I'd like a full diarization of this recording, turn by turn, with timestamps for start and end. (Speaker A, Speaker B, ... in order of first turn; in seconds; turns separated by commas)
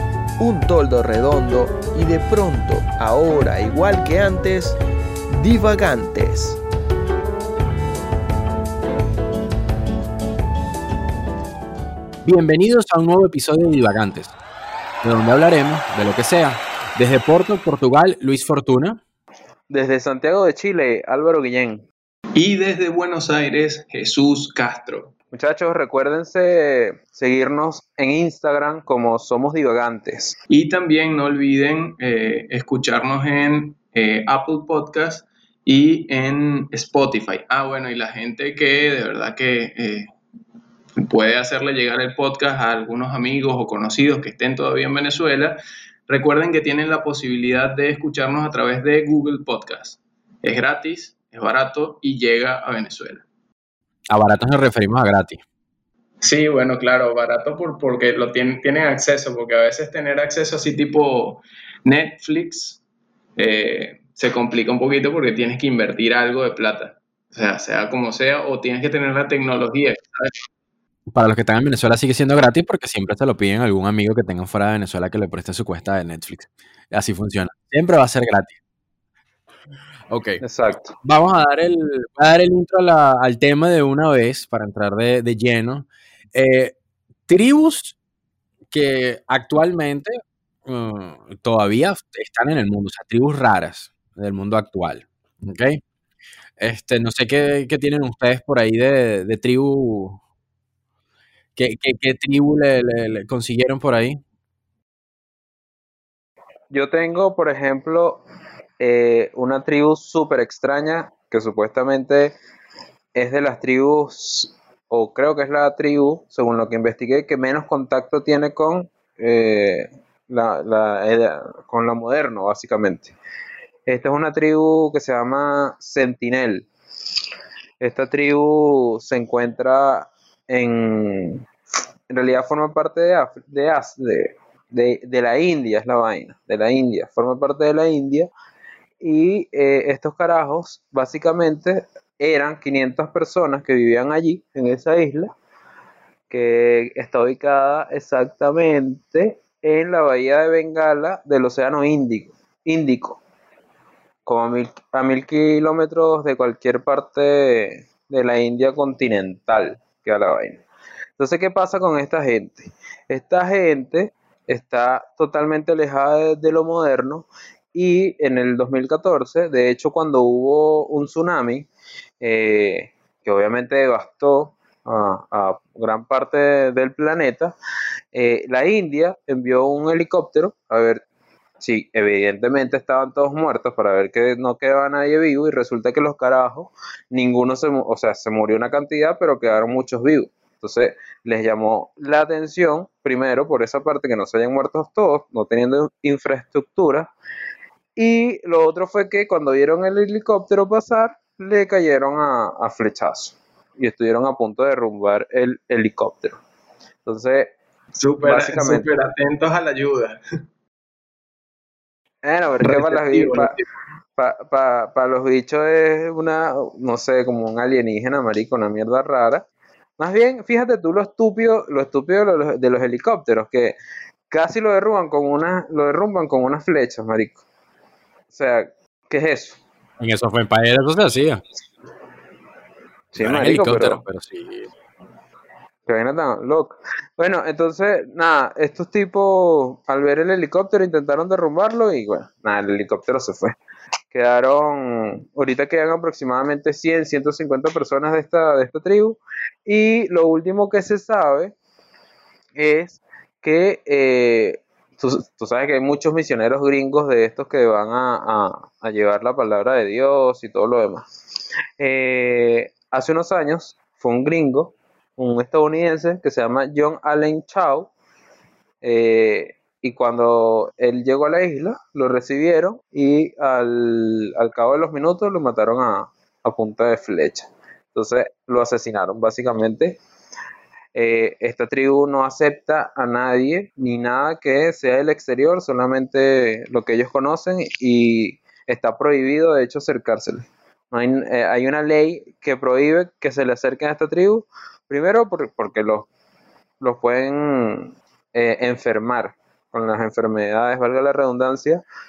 Speaker A: 0.4-4.8, Speaker A: 5.3-6.6, Speaker B: 12.2-14.3, Speaker B: 15.0-19.0, Speaker C: 19.7-21.9, Speaker D: 22.4-25.1, Speaker C: 25.3-30.4, Speaker D: 30.5-40.1, Speaker D: 41.0-45.6, Speaker D: 46.1-53.2, Speaker B: 54.1-55.4, Speaker D: 56.2-62.8, Speaker D: 63.4-70.3, Speaker B: 71.1-78.6, Speaker B: 80.1-80.4, Speaker C: 80.4-80.9, Speaker B: 81.0-86.8, Speaker B: 87.3-88.0, Speaker B: 88.7-95.8, Speaker B: 96.6-100.2, Speaker B: 101.6-104.2, Speaker C: 106.7-108.2, Speaker C: 108.8-112.3, Speaker C: 113.2-123.1, Speaker C: 123.9-126.7, Speaker C: 127.8-131.5, Speaker C: 132.1-138.3, Speaker C: 139.0-145.3, Speaker C: 146.3-153.2, Speaker C: 154.3-160.6, Speaker C: 161.2-171.7, Speaker C: 172.2-177.5, Speaker C: 178.1-181.0, Speaker C: 181.6-197.1, Speaker C: 198.0-206.4, Speaker C: 207.1-207.5, Speaker D: 208.0-210.2, Speaker C: 208.2-208.9, Speaker C: 212.2-213.6, Speaker D: 212.6-213.7, Speaker C: 214.2-219.4, Speaker C: 220.0-223.8, Speaker C: 224.3-227.4, Speaker C: 228.3-229.6, Speaker B: 230.0-231.4, Speaker C: 233.1-234.0, Speaker B: 233.2-234.7, Speaker C: 235.9-243.6, Speaker C: 244.1-251.5, Speaker C: 252.6-261.1, Speaker C: 261.8-267.9, Speaker C: 268.8-280.0, Speaker C: 280.9-296.1, Speaker C: 296.8-301.8